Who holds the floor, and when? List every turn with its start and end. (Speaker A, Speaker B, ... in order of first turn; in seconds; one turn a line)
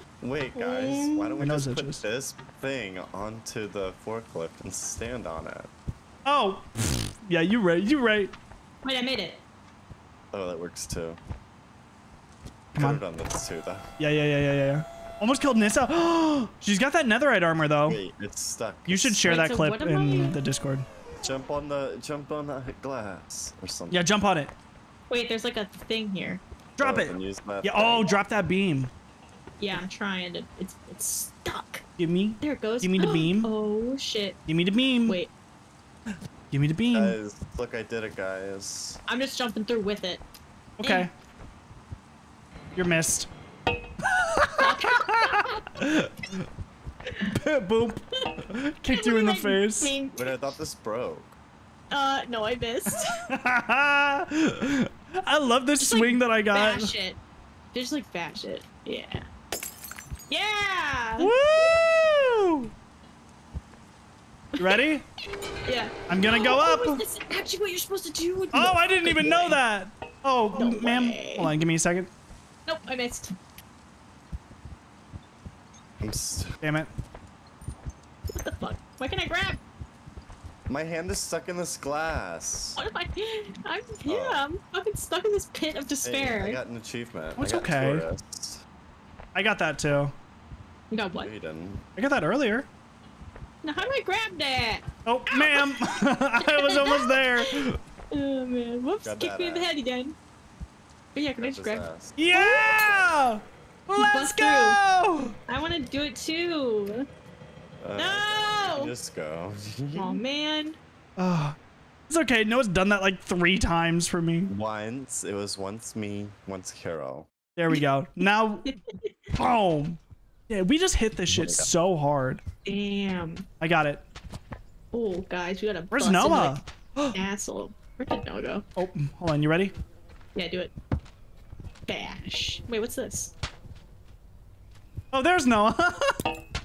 Speaker A: 0.2-5.7
Speaker B: 0.6-1.5
Speaker C: 1.4-2.0
Speaker C: 6.3-8.3
Speaker B: 8.8-9.4
Speaker A: 10.3-11.2
Speaker C: 12.8-13.0
Speaker A: 12.8-13.9
Speaker C: 14.0-18.0
Speaker A: 17.9-19.3
Speaker C: 18.9-20.9
Speaker B: 19.3-20.4
Speaker A: 21.2-24.1
Speaker C: 23.9-24.5
Speaker B: 25.1-26.4
Speaker C: 26.8-28.9
Speaker A: 26.8-28.2
Speaker B: 29.6-31.8
Speaker C: 32.0-33.5
Speaker B: 32.4-34.4
Speaker C: 34.5-35.2
Speaker C: 36.5-37.2
Speaker A: 36.9-39.0
Speaker B: 39.1-40.2
Speaker C: 40.8-41.1
Speaker B: 40.8-41.1
Speaker C: 42.8-43.3
Speaker C: 44.0-46.5
Speaker B: 44.6-45.6
Speaker C: 47.2-49.9
Speaker B: 49.0-50.4
Speaker A: 50.1-51.4
Speaker B: 51.9-53.2
Speaker C: 52.9-56.9
Speaker B: 55.8-57.2
Speaker B: 57.7-59.3
Speaker B: 60.3-61.7
Speaker C: 61.2-62.7
Speaker C: 64.6-65.0
Speaker B: 65.7-69.6
Speaker C: 66.1-67.0
Speaker C: 68.5-72.1
Speaker B: 70.5-71.5
Speaker B: 72.7-73.3
Speaker A: 76.0-76.6
Speaker C: 76.6-76.9
Speaker B: 78.3-79.6
Speaker A: 80.7-82.8
Speaker B: 82.8-86.6
Speaker A: 84.1-84.4
Speaker A: 86.0-88.6
Speaker C: 87.4-88.1
Speaker C: 89.3-90.1
Speaker B: 90.9-91.3
Speaker A: 91.2-91.8
Speaker C: 92.0-92.7
Speaker B: 93.6-100.2
Speaker C: 95.1-97.8
Speaker A: 99.0-99.7
Speaker B: 101.1-103.1
Speaker A: 101.4-102.2
Speaker C: 102.2-105.3
Speaker B: 104.0-104.8
Speaker B: 105.5-107.1
Speaker A: 107.8-110.2
Speaker B: 108.0-108.9
Speaker B: 109.9-110.8
Speaker C: 111.2-111.6
Speaker C: 112.1-114.5
Speaker A: 114.5-117.3
Speaker C: 117.6-118.8
Speaker B: 118.7-119.1
Speaker C: 119.4-122.4
Speaker A: 121.3-121.7
Speaker B: 122.7-123.5
Speaker C: 123.6-124.0
Speaker B: 124.9-126.6
Speaker C: 125.9-127.2
Speaker B: 127.1-128.7
Speaker C: 128.8-129.7
Speaker B: 130.3-130.7
Speaker B: 131.9-133.3
Speaker C: 135.1-136.2